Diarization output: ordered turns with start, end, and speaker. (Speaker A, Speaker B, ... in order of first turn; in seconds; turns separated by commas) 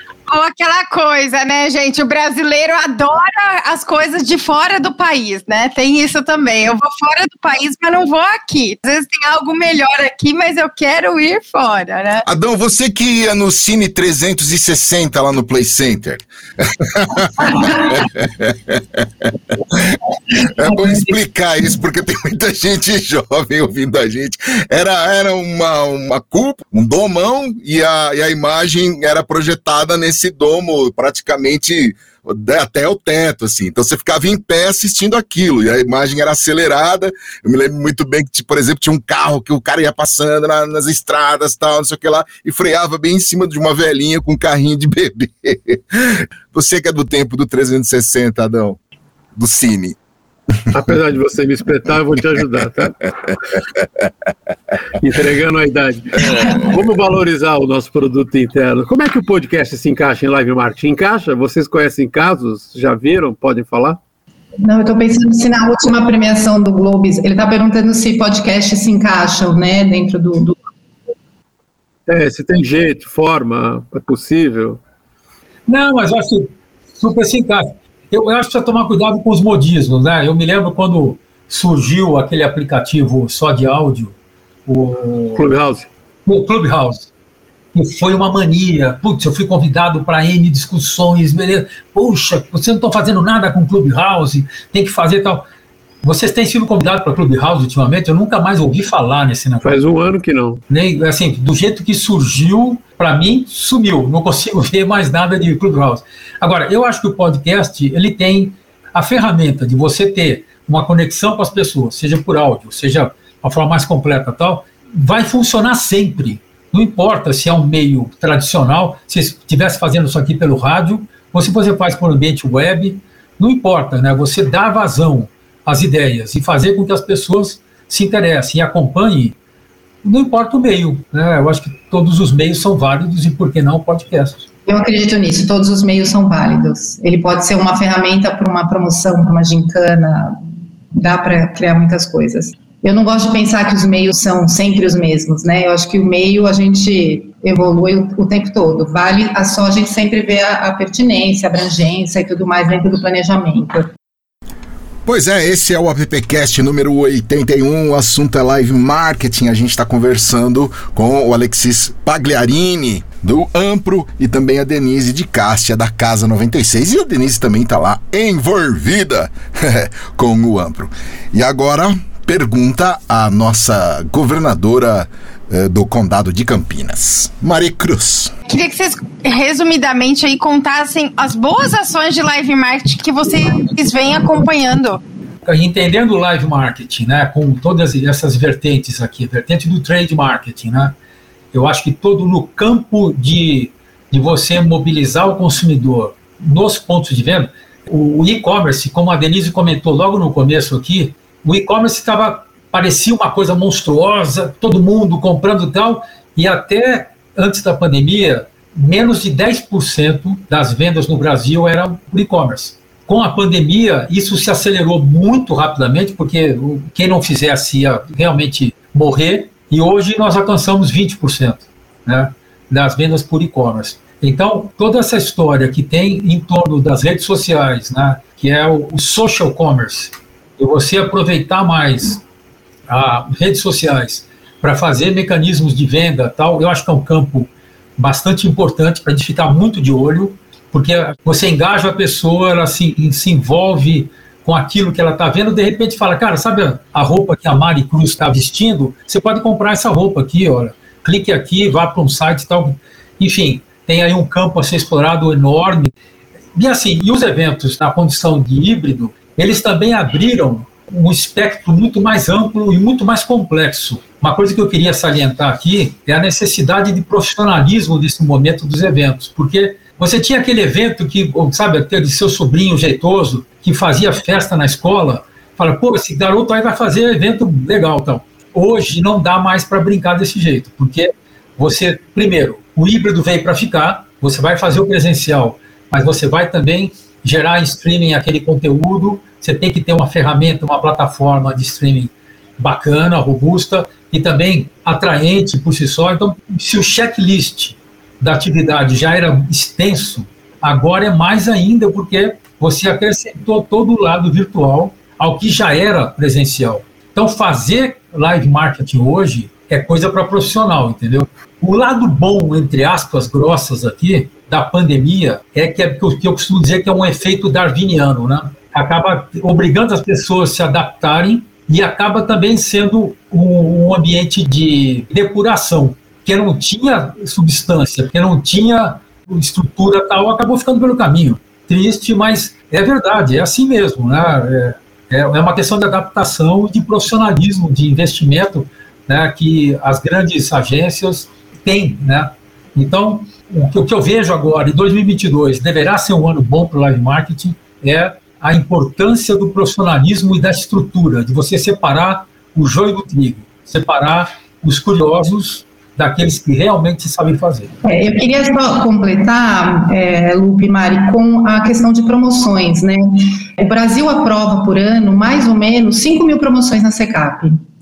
Speaker A: 0.3-12.2, Speaker B: 12.2-20.0, Speaker C: 17.4-17.9, Speaker B: 20.6-48.8, Speaker C: 20.6-21.1, Speaker B: 49.4-50.0, Speaker D: 50.7-52.9, Speaker D: 55.0-64.0, Speaker C: 64.6-70.6, Speaker D: 72.1-74.8, Speaker E: 75.7-84.1, Speaker E: 84.7-85.5, Speaker D: 85.4-85.9, Speaker E: 86.3-87.1, Speaker E: 87.7-95.4, Speaker E: 96.0-99.8, Speaker D: 99.6-100.6, Speaker E: 100.7-129.4, Speaker E: 130.0-134.5, Speaker C: 134.7-140.4, Speaker C: 140.9-153.9, Speaker B: 155.1-178.3, Speaker A: 178.5-185.0, Speaker E: 185.4-190.9, Speaker E: 191.5-232.2, Speaker E: 232.9-255.9, Speaker E: 256.6-357.7, Speaker C: 357.8-367.6